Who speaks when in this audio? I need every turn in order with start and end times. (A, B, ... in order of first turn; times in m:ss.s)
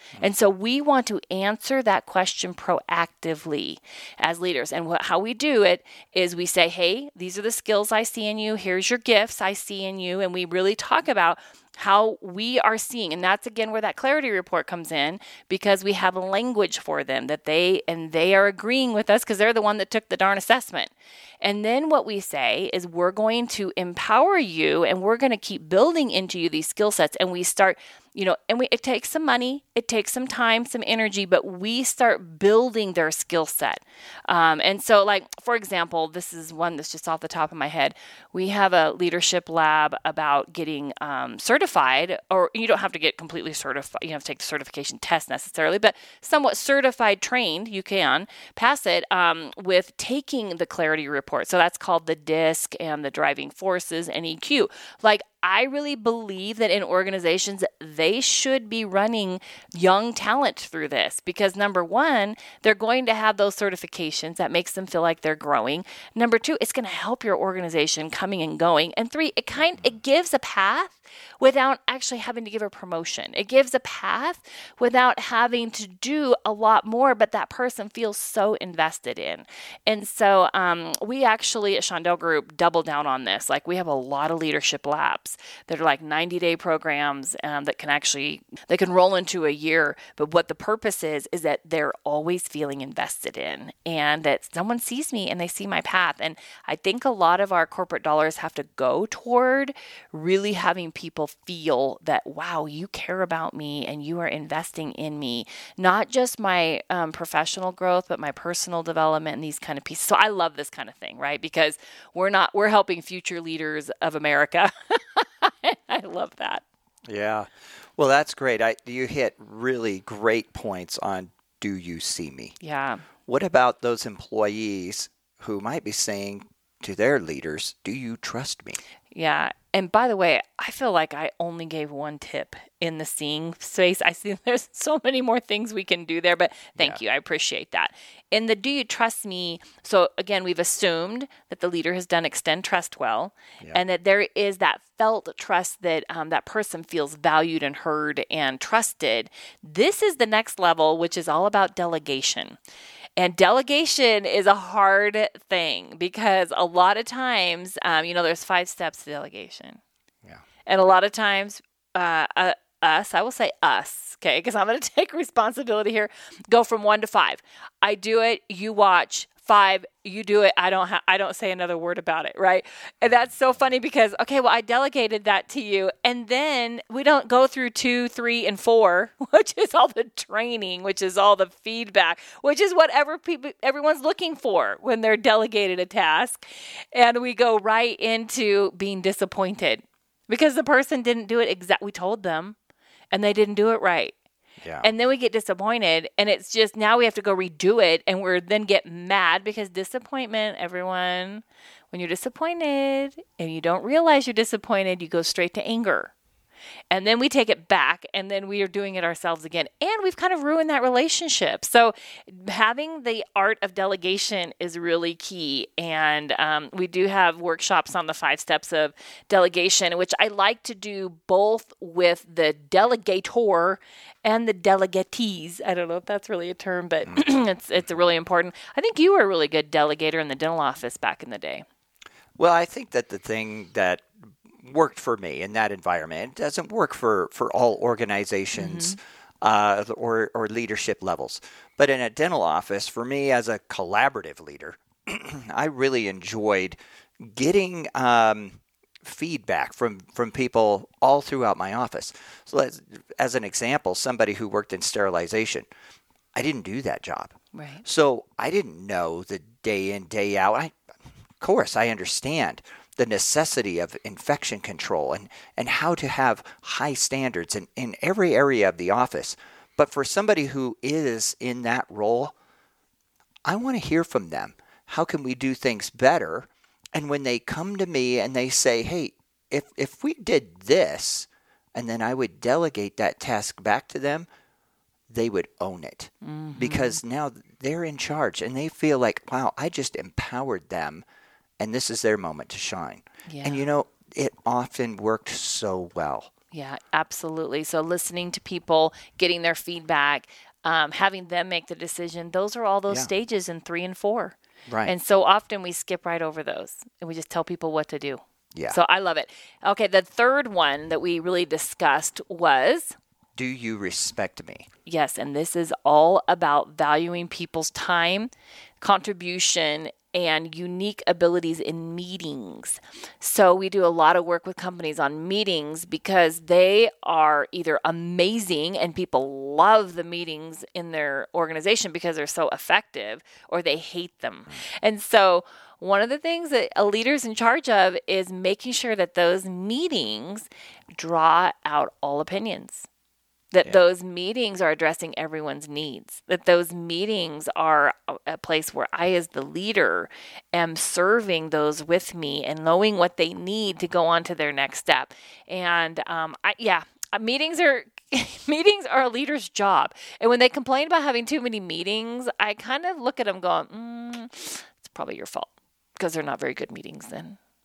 0:00.2-1:56.6 A
1:57.1-2:02.6 B
2:02.6-2:03.0 A
2:03.3-2:08.8 B
2:09.1-2:32.6 A
2:33.2-2:39.8 A
2:40.6-3:12.6 A
3:13.1-3:14.2 A
3:14.6-3:14.9 B
3:14.8-3:26.1 A
3:26.9-3:51.6 A
3:52.4-4:15.7 B
3:58.5-3:59.0 A
4:16.3-4:17.3 B
4:17.5-4:17.8 A
4:17.8-4:20.7 B
4:21.4-4:32.3 B
4:33.5-4:44.3 B
4:45.1-4:51.0 B
4:46.2-4:47.0 A
4:51.6-4:56.3 B
4:53.3-4:53.6 A
4:56.5-5:12.9 A
5:04.7-5:04.9 B
5:13.4-5:14.7 B
5:14.8-5:42.9 A
5:43.5-6:07.4 A